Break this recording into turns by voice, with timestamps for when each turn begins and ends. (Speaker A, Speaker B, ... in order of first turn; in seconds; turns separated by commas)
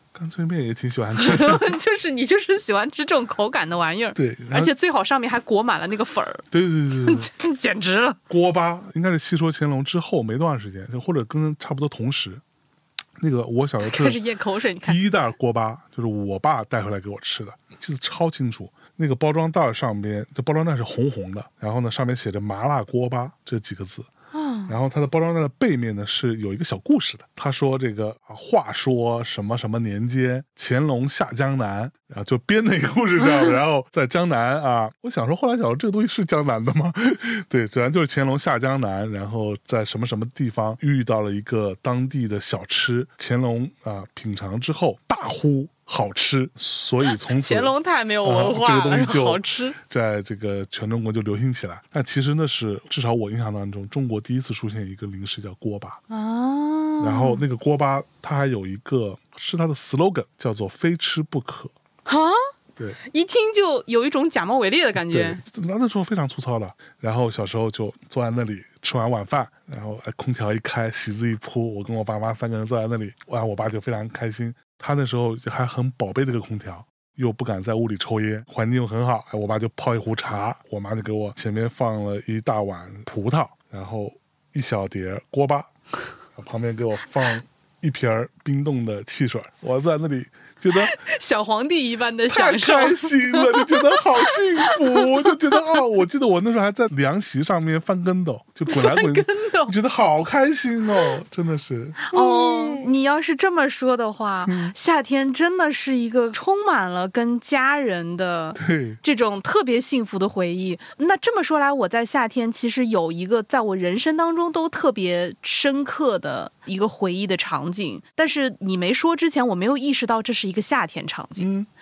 Speaker A: 0.1-1.7, Speaker B: 1.1-8.2, Speaker A: 4.1-4.7, Speaker A: 6.5-7.3, Speaker A: 8.3-12.4, Speaker A: 13.2-14.2, Speaker B: 13.8-15.0, Speaker A: 14.8-24.1, Speaker B: 24.3-24.7, Speaker A: 24.7-56.0, Speaker B: 47.1-49.8, Speaker B: 56.1-57.4, Speaker A: 57.0-61.7, Speaker B: 62.0-62.4, Speaker B: 63.0-65.4, Speaker A: 65.0-85.7, Speaker A: 86.3-91.0, Speaker B: 90.7-95.8, Speaker A: 92.3-102.9, Speaker B: 98.7-99.7, Speaker B: 102.0-121.5, Speaker A: 104.4-104.7, Speaker A: 108.5-109.0, Speaker A: 121.4-121.7